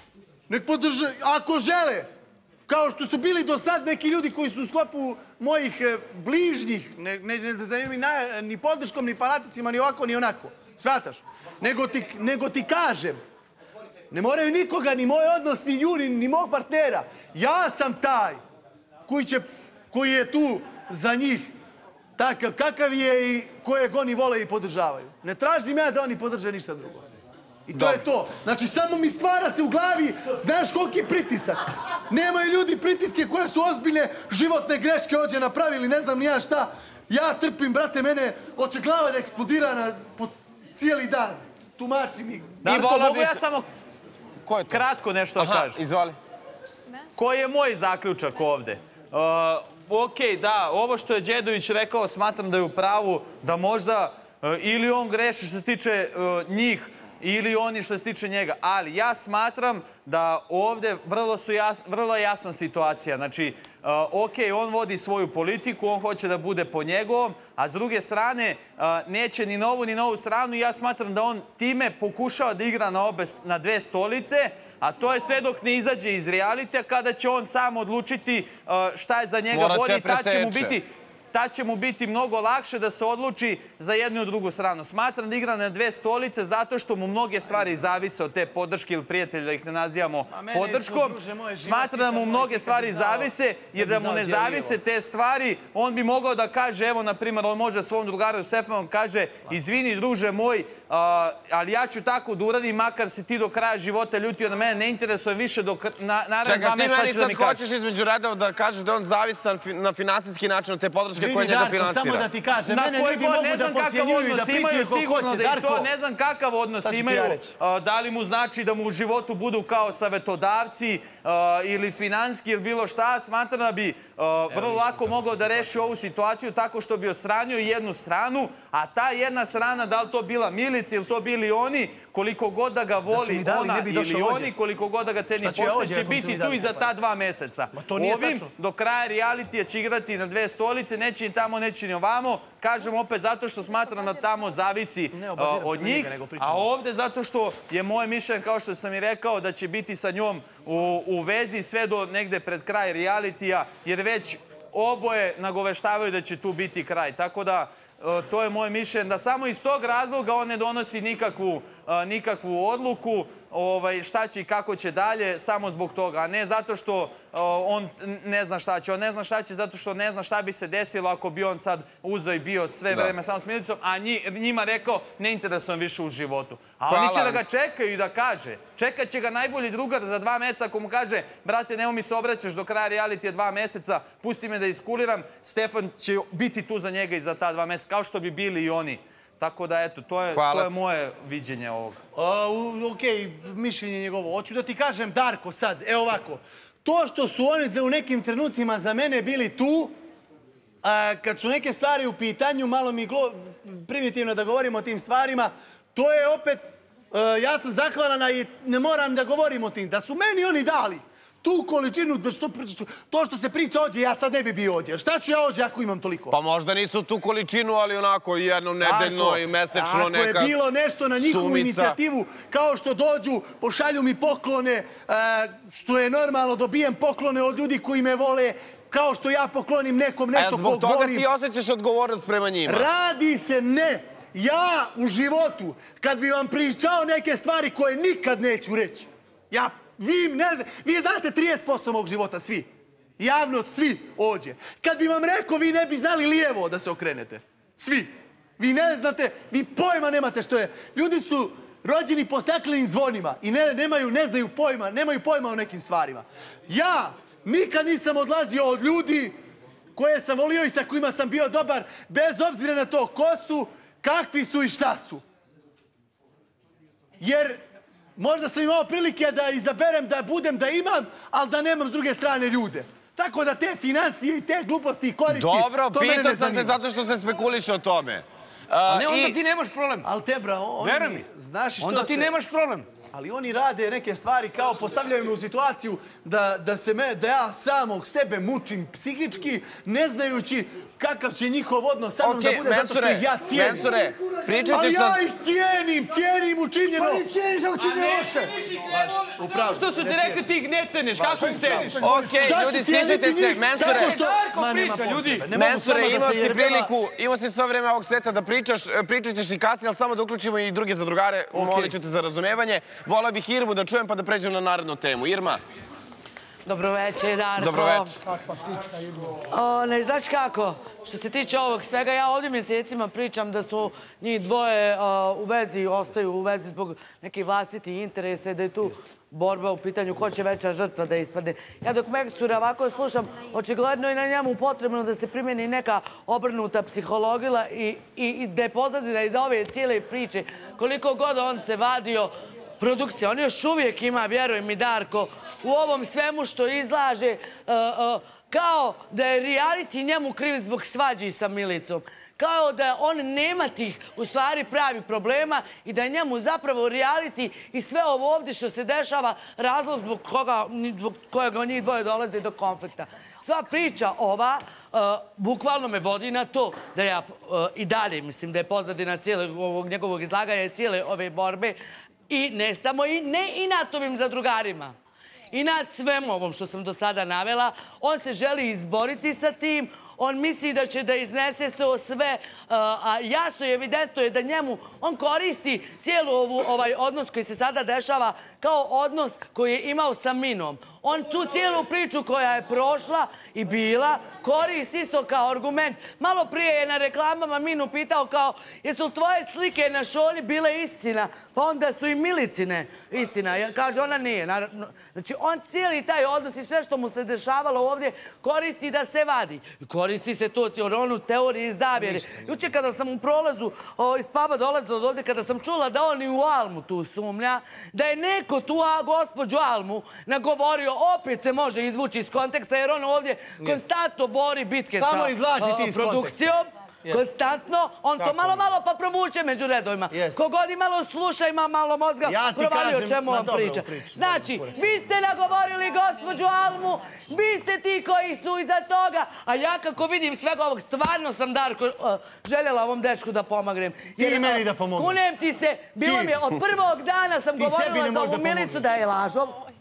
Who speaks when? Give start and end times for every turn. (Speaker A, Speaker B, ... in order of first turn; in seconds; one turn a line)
Speaker A: 0.5-2.1
Speaker A: 2.7-13.2
Speaker A: 14.1-18.4
Speaker A: 19.1-21.5
Speaker A: 22.2-27.0
Speaker A: 27.7-42.8
Speaker B: 27.7-28.0
Speaker C: 42.6-43.6
Speaker B: 42.6-43.4
Speaker B: 44.4-44.8
Speaker C: 44.7-45.8
Speaker B: 45.4-46.2
Speaker C: 47.1-107.6
Speaker B: 79.5-80.8
Speaker A: 90.3-94.8
Speaker B: 106.4-112.2
Speaker A: 111.1-115.9
Speaker C: 112.7-192.0
Speaker A: 116.8-117.5
Speaker A: 133.1-134.5
Speaker A: 135.4-136.9
Speaker A: 137.7-138.5
Speaker A: 145.1-146.7
Speaker B: 176.9-177.4
Speaker B: 190.3-190.7
Speaker A: 192.1-199.9
Speaker A: 200.8-216.3
Speaker B: 216.3-220.5
Speaker A: 218.8-231.2
Speaker B: 221.2-222.0
Speaker B: 230.3-232.9
Speaker A: 232.7-259.3
Speaker A: 259.9-265.2
Speaker A: 267.2-267.6
Speaker A: 268.1-276.8
Speaker B: 275.3-279.4
Speaker D: 278.9-280.1
Speaker A: 280.0-282.3
Speaker D: 280.8-281.2
Speaker D: 281.8-282.9
Speaker A: 283.1-293.9
Speaker B: 292.2-295.2
Speaker E: 293.3-294.8
Speaker A: 294.7-297.2
Speaker E: 296.9-298.6
Speaker A: 298.8-300.4
Speaker A: 301.1-306.9
Speaker E: 301.3-302.8
Speaker B: 301.9-304.2
Speaker D: 303.8-305.4
Speaker B: 305.5-315.6
Speaker A: 311.5-311.9
Speaker F: 316.6-318.1
Speaker B: 317.6-318.1
Speaker E: 318.2-319.4
Speaker F: 319.4-371.8
Speaker F: 372.3-374.9
Speaker F: 375.5-449.6
Speaker A: 424.9-426.4
Speaker A: 428.2-428.6
Speaker A: 430.1-430.4
Speaker A: 432.2-434.9
Speaker A: 444.1-445.2
Speaker A: 446.0-446.4
Speaker A: 447.6-448.9